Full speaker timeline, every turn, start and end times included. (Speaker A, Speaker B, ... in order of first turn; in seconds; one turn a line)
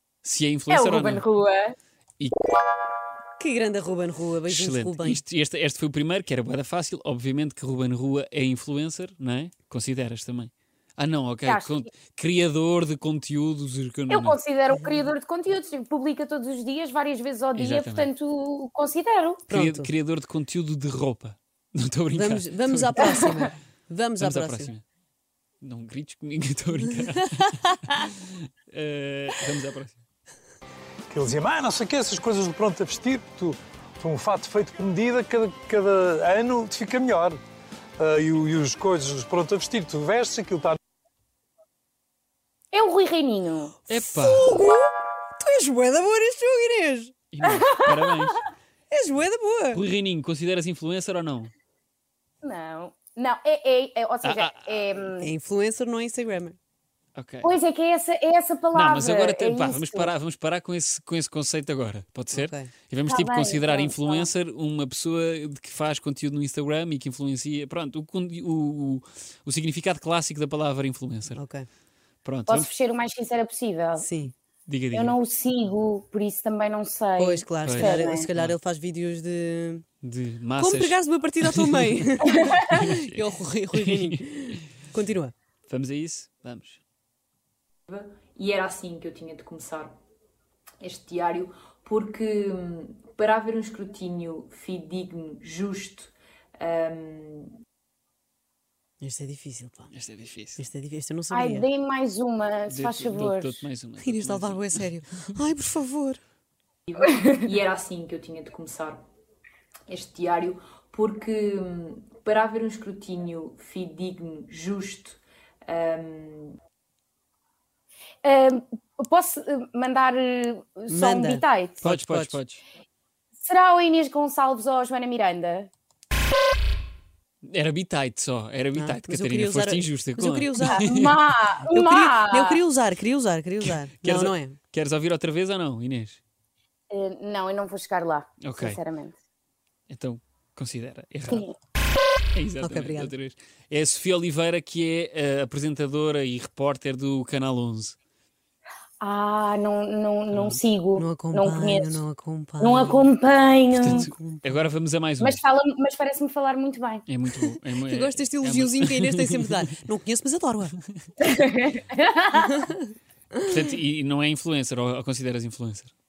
Speaker A: 0.2-1.2
Speaker B: 0.7-1.8
Speaker C: 3.4-5.2
Speaker A: 4.5-14.4
Speaker B: 11.5-11.9
Speaker B: 14.1-19.4
Speaker C: 14.7-15.1
Speaker A: 17.6-18.1
Speaker C: 19.5-19.9
Speaker A: 19.5-23.2
Speaker C: 22.1-24.7
Speaker B: 23.0-23.5
Speaker A: 24.2-24.8
Speaker A: 25.6-30.0
Speaker C: 26.8-28.1
Speaker D: 31.1-37.4
Speaker D: 38.0-40.8
Speaker B: 42.7-43.7
Speaker A: 43.9-44.5
Speaker C: 43.9-47.1
Speaker A: 47.3-48.4
Speaker B: 47.4-48.4
Speaker C: 48.9-49.8
Speaker A: 49.7-51.5
Speaker B: 52.4-55.3
Speaker A: 54.2-54.7
Speaker C: 55.2-56.6
Speaker A: 57.1-57.5
Speaker B: 57.4-60.1
Speaker A: 58.7-71.4
Speaker C: 62.3-62.7
Speaker B: 63.1-64.3
Speaker C: 71.3-71.7
Speaker A: 72.2-72.7
Speaker B: 72.5-74.1
Speaker C: 74.0-74.3
Speaker A: 74.7-75.2
Speaker B: 74.9-78.3
Speaker C: 77.2-79.9
Speaker A: 77.6-78.5
Speaker A: 80.0-82.1
Speaker C: 80.6-85.3
Speaker A: 82.7-84.6
Speaker A: 85.7-86.8
Speaker E: 87.9-90.0
Speaker E: 90.8-97.6
Speaker C: 99.0-99.9
Speaker A: 99.9-100.6
Speaker C: 100.6-101.7
Speaker B: 101.3-103.7
Speaker A: 102.7-104.8
Speaker C: 104.0-106.2
Speaker E: 106.9-109.0
Speaker E: 109.9-116.6
Speaker B: 118.2-121.8
Speaker C: 120.9-122.4
Speaker A: 121.8-122.6
Speaker B: 123.4-125.7
Speaker A: 127.5-131.2
Speaker C: 128.8-130.9
Speaker B: 130.7-132.6
Speaker C: 131.6-134.6
Speaker A: 133.7-136.2
Speaker B: 136.9-139.2
Speaker A: 138.4-138.8
Speaker A: 139.9-141.5
Speaker A: 142.3-148.0
Speaker C: 142.6-143.1
Speaker B: 149.0-152.0
Speaker A: 150.3-150.6
Speaker C: 151.0-153.1
Speaker B: 152.6-154.1
Speaker A: 153.8-155.4
Speaker C: 153.8-154.6
Speaker B: 155.2-157.0
Speaker A: 157.1-159.7
Speaker C: 157.4-160.8
Speaker B: 161.2-162.7
Speaker C: 162.4-163.6
Speaker A: 163.4-165.9